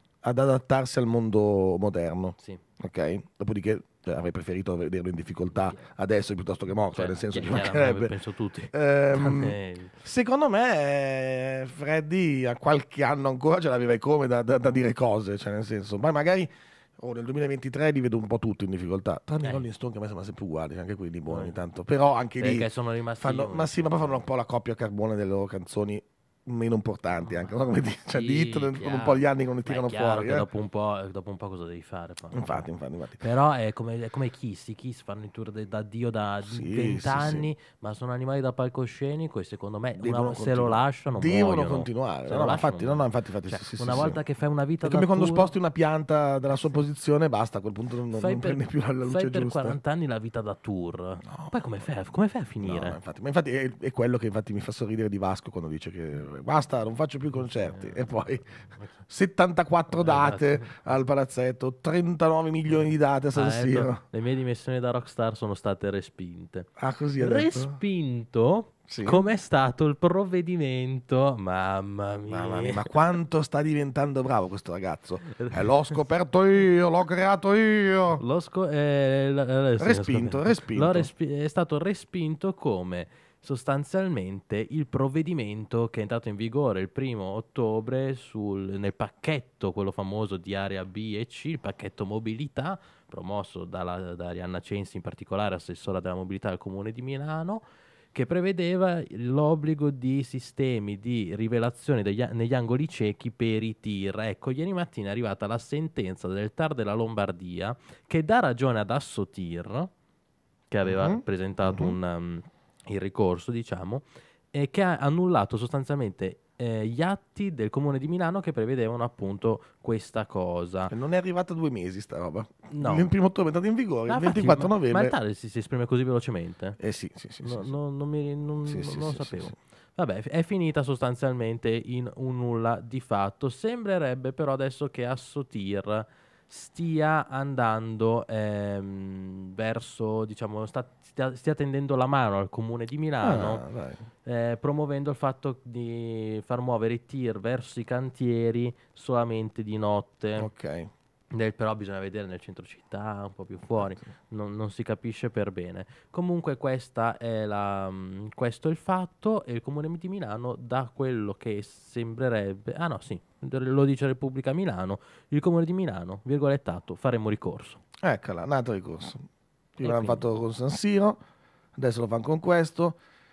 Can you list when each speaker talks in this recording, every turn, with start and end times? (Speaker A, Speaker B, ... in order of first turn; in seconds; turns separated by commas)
Speaker A: 0.2-8.1, Speaker B: 6.9-9.9, Speaker A: 8.7-22.7, Speaker B: 21.3-21.5, Speaker B: 22.4-24.2, Speaker A: 23.2-30.4, Speaker B: 27.2-27.5, Speaker B: 28.1-32.7, Speaker A: 32.3-33.2, Speaker B: 33.2-45.5, Speaker A: 36.5-37.5, Speaker A: 40.0-44.2, Speaker A: 44.8-49.8, Speaker B: 48.1-53.0, Speaker A: 51.2-51.5, Speaker A: 52.6-58.5, Speaker B: 57.6-58.9, Speaker A: 59.1-64.0, Speaker B: 60.0-60.8, Speaker B: 63.3-72.9, Speaker A: 66.8-67.8, Speaker A: 68.9-69.2, Speaker A: 72.3-78.2, Speaker B: 78.2-109.9, Speaker A: 79.8-81.1, Speaker B: 110.7-120.9, Speaker A: 110.8-112.0, Speaker A: 120.9-125.1, Speaker B: 122.7-123.1, Speaker B: 124.1-126.8, Speaker A: 126.8-127.7, Speaker B: 127.4-143.6, Speaker A: 128.6-129.5, Speaker A: 143.2-144.0, Speaker B: 144.2-150.5, Speaker A: 150.4-150.9, Speaker B: 151.3-167.8, Speaker A: 168.0-171.2, Speaker B: 169.8-170.2, Speaker A: 171.8-173.0